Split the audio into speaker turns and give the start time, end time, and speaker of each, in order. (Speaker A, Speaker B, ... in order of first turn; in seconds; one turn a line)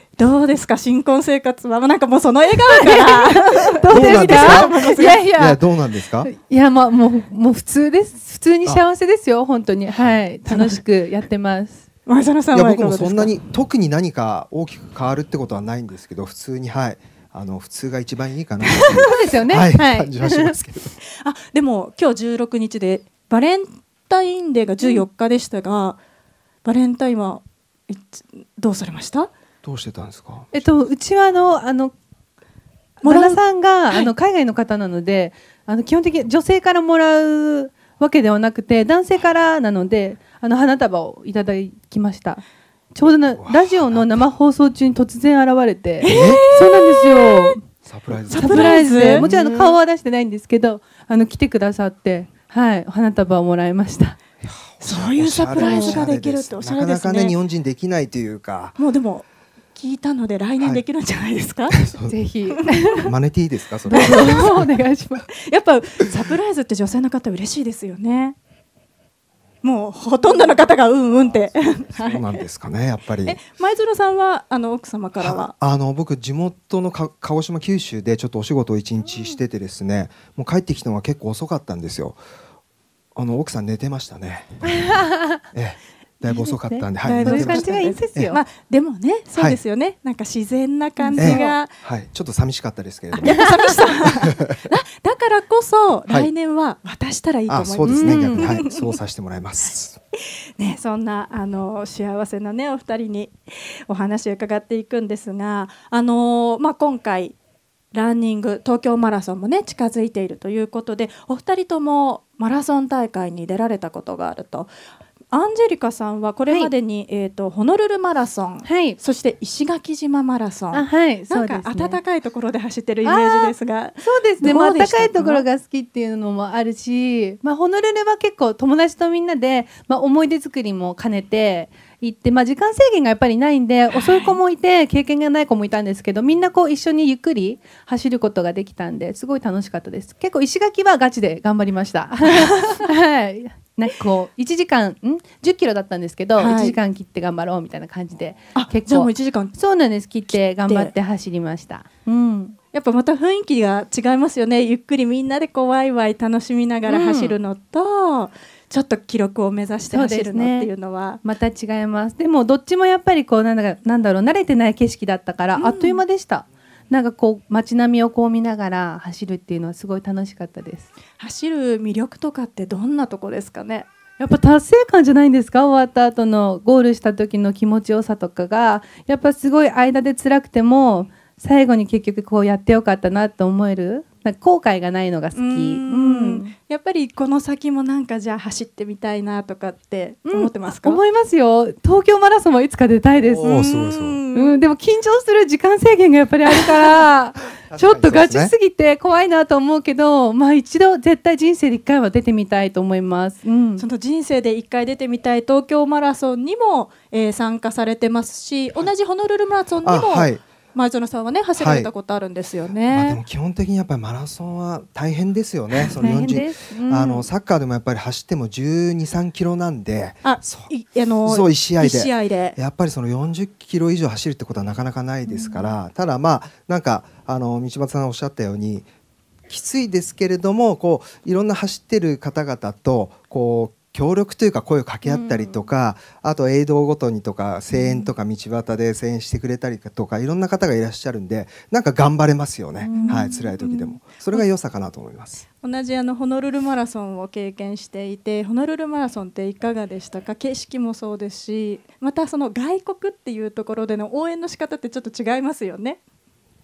Speaker A: 0.2-5.3
Speaker B: 2.7-5.6
Speaker C: 3.9-4.8
Speaker C: 5.3-6.3
Speaker B: 6.2-11.8
Speaker A: 10.5-10.8
Speaker A: 12.1-13.3
Speaker C: 12.5-20.9
Speaker A: 18.7-19.0
Speaker B: 19.0-20.5
Speaker A: 19.8-20.1
Speaker A: 21.2-26.0
Speaker A: 26.6-29.3
Speaker C: 29.6-30.5
Speaker B: 30.5-31.9
Speaker B: 33.0-42.4
Speaker A: 33.0-34.1
Speaker B: 42.9-47.6
Speaker C: 43.3-44.2
Speaker A: 46.0-47.5
Speaker C: 46.1-46.4
Speaker C: 47.9-49.8
Speaker A: 48.3-49.3
Speaker B: 48.3-54.2
Speaker C: 54.4-58.8
Speaker A: 54.8-57.4
Speaker B: 55.5-56.1
Speaker A: 58.8-59.2
Speaker A: 59.8-61.8
Speaker C: 61.7-62.2
Speaker B: 62.0-63.0
Speaker A: 62.5-62.8
Speaker C: 63.0-64.7
Speaker B: 63.9-65.3
Speaker A: 63.9-64.5
Speaker A: 65.5-68.4
Speaker A: 69.6-72.4
Speaker C: 72.0-73.4
Speaker A: 73.2-75.5
Speaker C: 75.2-82.2
Speaker B: 79.0-79.4
Speaker C: 83.2-84.6
Speaker B: 84.6-85.4
Speaker C: 85.5-88.3
Speaker B: 86.2-88.4
Speaker A: 87.0-91.8
Speaker B: 91.0-91.5
Speaker C: 91.2-93.4
Speaker A: 93.2-99.0
Speaker C: 97.5-100.0
Speaker B: 97.8-98.6
Speaker A: 100.6-103.4
Speaker A: 103.9-107.4
Speaker A: 107.9-114.7
Speaker A: 115.3-125.5
Speaker B: 116.5-116.7
Speaker B: 118.6-119.0
Speaker B: 120.7-122.0
Speaker B: 123.0-152.6
Speaker A: 133.9-134.4
Speaker A: 146.4-146.8
Speaker A: 148.6-149.6
Speaker A: 150.3-150.9
Speaker A: 152.7-161.2
Speaker B: 156.9-157.4
Speaker B: 159.9-160.7
Speaker B: 161.2-170.9
Speaker A: 165.6-166.0
Speaker A: 171.2-173.8
Speaker B: 174.2-186.5
Speaker A: 185.3-191.0
Speaker B: 190.3-193.7
Speaker C: 193.2-194.2
Speaker A: 193.4-194.6
Speaker B: 194.3-203.8
Speaker C: 197.6-198.5
Speaker A: 203.8-213.2
Speaker C: 209.8-210.4
Speaker C: 211.6-211.9
Speaker C: 212.9-220.7
Speaker B: 216.0-217.3
Speaker A: 220.2-222.6
Speaker C: 221.2-228.9
Speaker B: 225.3-225.8
Speaker C: 229.5-245.5
Speaker B: 235.0-235.7
Speaker A: 237.7-238.1
Speaker B: 242.8-243.5
Speaker A: 242.9-244.5
Speaker A: 245.6-256.0